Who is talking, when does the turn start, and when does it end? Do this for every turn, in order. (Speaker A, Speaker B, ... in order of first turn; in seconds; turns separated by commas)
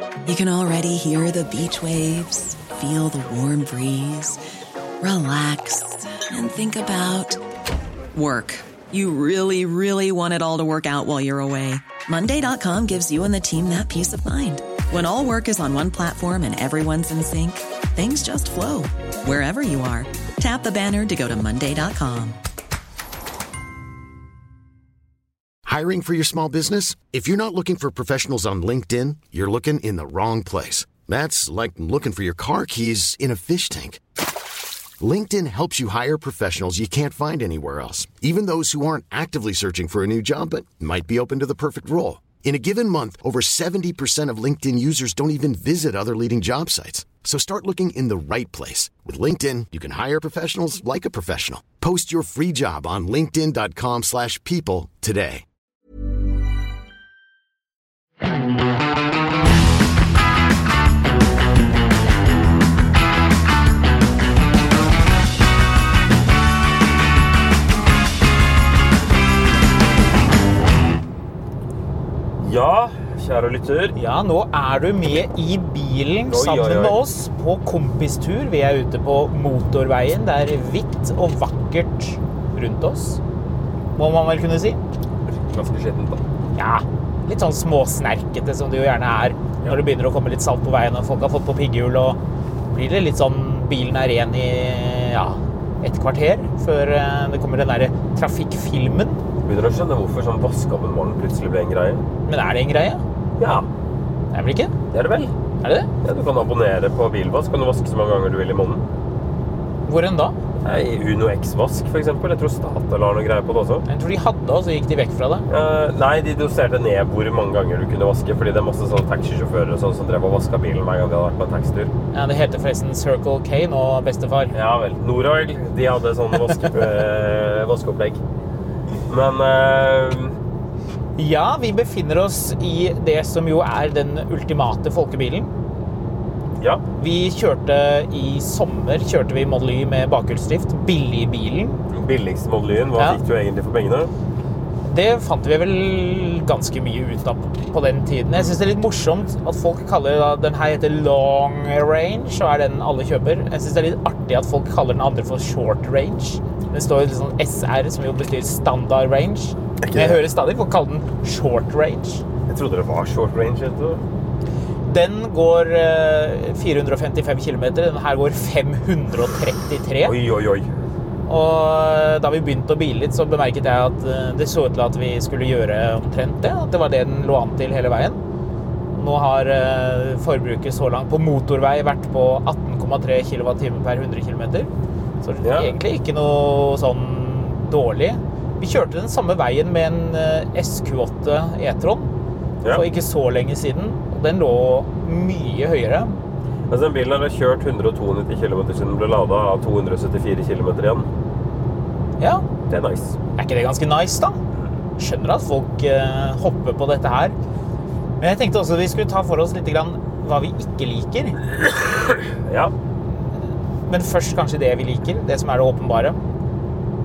Speaker A: 0.2-4.4, Speaker A: 5.0-7.4, Speaker A: 8.1-22.4, Speaker B: 25.7-34.0, Speaker B: 35.0-55.4, Speaker C: 72.4-74.0, Speaker D: 74.0-83.2, Speaker C: 76.3-77.0, Speaker D: 84.0-84.8, Speaker C: 85.3-86.2, Speaker D: 86.6-92.2, Speaker D: 92.7-99.2, Speaker C: 99.5-102.0, Speaker D: 102.3-103.0, Speaker C: 103.4-103.7, Speaker D: 104.3-104.8, Speaker C: 104.9-105.3, Speaker D: 105.6-105.9, Speaker C: 106.0-108.9, Speaker D: 109.9-110.4, Speaker C: 110.6-113.8, Speaker D: 113.9-115.5, Speaker C: 115.5-121.9, Speaker D: 122.1-124.5, Speaker C: 124.5-128.2, Speaker C: 129.1-130.4, Speaker D: 131.2-135.5, Speaker D: 137.0-141.8, Speaker C: 141.9-144.1, Speaker D: 144.8-162.2, Speaker C: 159.8-160.2, Speaker C: 162.5-164.0, Speaker D: 164.9-170.2, Speaker C: 170.0-170.7, Speaker D: 171.3-178.2, Speaker D: 178.9-184.7, Speaker D: 185.2-192.1, Speaker C: 185.4-185.7, Speaker D: 192.7-196.2, Speaker C: 196.7-201.1, Speaker D: 202.2-202.5, Speaker C: 202.7-203.2, Speaker D: 203.4-204.4, Speaker D: 205.0-207.3, Speaker D: 208.2-211.4, Speaker C: 211.6-212.7, Speaker D: 213.9-216.2